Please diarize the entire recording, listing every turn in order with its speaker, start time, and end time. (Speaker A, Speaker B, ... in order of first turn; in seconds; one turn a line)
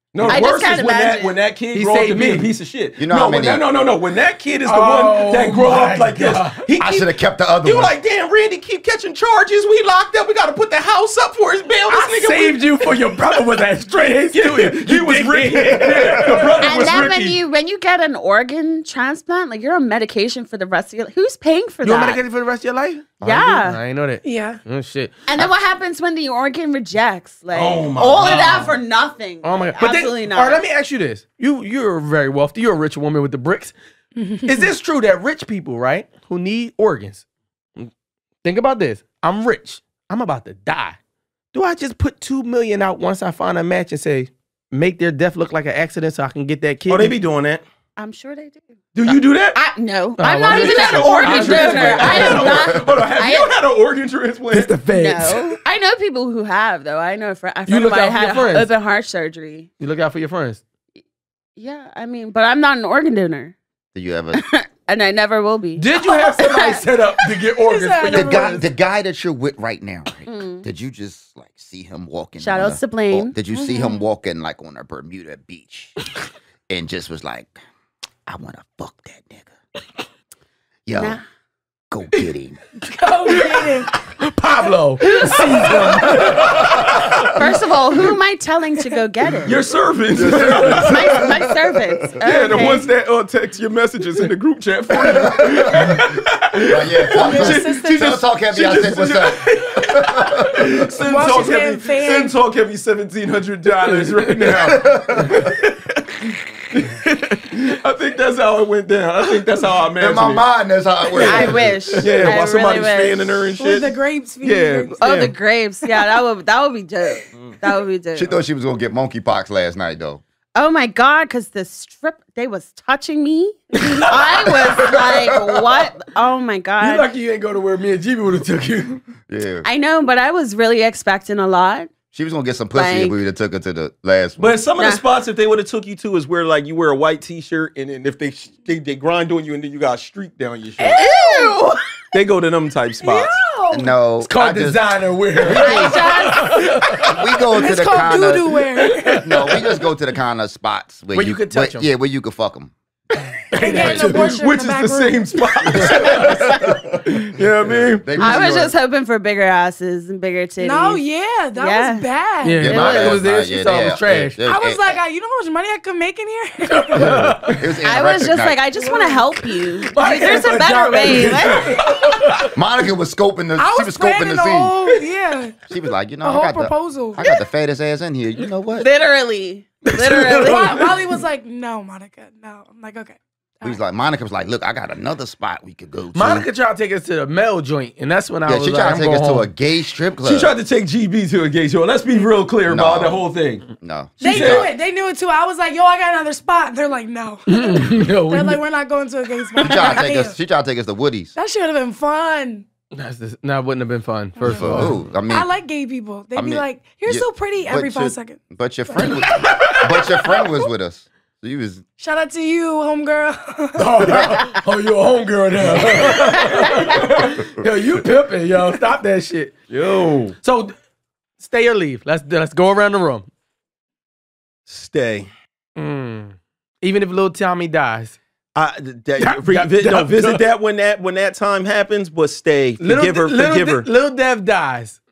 Speaker A: 0.1-12.9
Speaker B: 0.3-1.4
Speaker C: 1.7-2.5
Speaker D: 3.0-3.6
Speaker C: 4.6-6.7
Speaker D: 6.8-7.9
Speaker C: 11.9-17.0
Speaker A: 14.3-17.4
Speaker B: 16.6-22.2
Speaker C: 21.8-25.2
Speaker D: 23.2-23.6
Speaker B: 23.2-23.8
Speaker E: 24.2-24.6
Speaker B: 25.3-30.6
Speaker A: 27.5-28.7
Speaker C: 29.4-33.7
Speaker E: 34.1-34.7
Speaker C: 34.4-37.2
Speaker C: 38.4-41.0
Speaker C: 41.5-47.1
Speaker A: 46.9-47.6
Speaker B: 48.0-53.5
Speaker A: 48.9-49.6
Speaker C: 50.2-52.6
Speaker A: 50.4-54.8
Speaker D: 52.2-52.8
Speaker C: 54.5-55.6
Speaker B: 54.9-59.7
Speaker C: 57.7-58.7
Speaker C: 59.8-60.6
Speaker B: 61.6-63.5
Speaker D: 63.9-64.4
Speaker B: 64.3-66.9
Speaker C: 65.8-68.6
Speaker E: 67.6-68.6
Speaker D: 68.1-76.0
Speaker B: 70.3-70.6
Speaker B: 72.4-73.9
Speaker D: 76.7-77.6
Speaker D: 78.3-79.5
Speaker D: 80.8-81.2
Speaker B: 80.9-81.2
Speaker D: 81.9-82.6
Speaker E: 82.8-83.9
Speaker C: 83.2-87.3
Speaker B: 85.0-86.1
Speaker E: 85.2-86.0
Speaker D: 86.0-86.6
Speaker B: 87.1-89.7
Speaker A: 89.4-91.0
Speaker D: 90.1-92.2
Speaker C: 90.2-91.0
Speaker B: 90.7-92.9
Speaker A: 92.2-105.6
Speaker D: 95.0-96.0
Speaker C: 95.2-96.2
Speaker D: 96.7-100.6
Speaker E: 97.1-98.2
Speaker C: 99.8-100.4
Speaker E: 101.0-102.3
Speaker C: 103.8-104.6
Speaker D: 104.5-105.5
Speaker A: 106.7-110.4
Speaker C: 106.8-107.6
Speaker D: 110.0-111.7
Speaker A: 111.1-115.3
Speaker B: 111.1-113.3
Speaker C: 111.9-112.4
Speaker E: 113.5-115.0
Speaker B: 115.0-118.3
Speaker D: 118.1-120.2
Speaker B: 120.5-127.1
Speaker C: 123.7-125.0
Speaker D: 124.6-125.9
Speaker C: 126.8-129.0
Speaker D: 129.3-129.7
Speaker B: 129.6-131.9
Speaker D: 132.1-134.5
Speaker B: 132.7-133.2
Speaker A: 134.4-141.0
Speaker B: 134.8-135.0
Speaker E: 140.8-141.6
Speaker B: 140.9-141.7
Speaker A: 142.1-143.4
Speaker E: 143.0-143.9
Speaker D: 143.7-146.1
Speaker C: 144.2-147.2
Speaker E: 145.4-146.8
Speaker D: 147.1-148.6
Speaker E: 147.6-149.5
Speaker C: 148.8-149.6
Speaker D: 149.2-152.7
Speaker C: 151.1-151.9
Speaker C: 153.5-154.5
Speaker E: 153.6-155.3
Speaker D: 153.6-154.1
Speaker A: 153.9-158.3
Speaker D: 155.7-158.7
Speaker B: 156.2-156.6
Speaker B: 158.2-161.0
Speaker E: 160.6-162.9
Speaker B: 161.5-162.1
Speaker C: 162.4-164.4
Speaker D: 162.6-165.0
Speaker B: 162.6-163.2
Speaker E: 164.5-167.3
Speaker C: 166.7-167.6
Speaker D: 166.9-168.6
Speaker B: 167.8-171.8
Speaker E: 168.8-169.2
Speaker C: 169.9-172.5
Speaker E: 171.2-172.4
Speaker D: 172.5-174.8
Speaker E: 173.6-175.6
Speaker D: 175.7-178.9
Speaker E: 176.2-177.2
Speaker B: 178.8-180.9
Speaker C: 179.8-181.0
Speaker E: 180.4-183.8
Speaker D: 183.6-186.4
Speaker C: 186.1-189.5
Speaker D: 188.4-190.5
Speaker A: 190.2-193.7
Speaker D: 192.7-193.2
Speaker D: 193.8-194.7
Speaker E: 194.2-200.4
Speaker A: 194.2-194.7
Speaker C: 197.5-198.6
Speaker D: 199.6-201.3
Speaker E: 201.3-202.7
Speaker C: 202.9-205.0
Speaker E: 204.4-209.2
Speaker D: 204.4-205.5
Speaker D: 206.3-211.8
Speaker C: 209.0-210.1
Speaker E: 212.0-214.3
Speaker C: 213.8-219.6
Speaker A: 215.7-216.0
Speaker A: 219.7-220.3
Speaker C: 220.4-220.7
Speaker C: 221.4-223.3
Speaker A: 224.7-225.3
Speaker C: 225.8-228.2
Speaker A: 228.5-233.9
Speaker C: 229.2-230.4
Speaker C: 232.8-235.0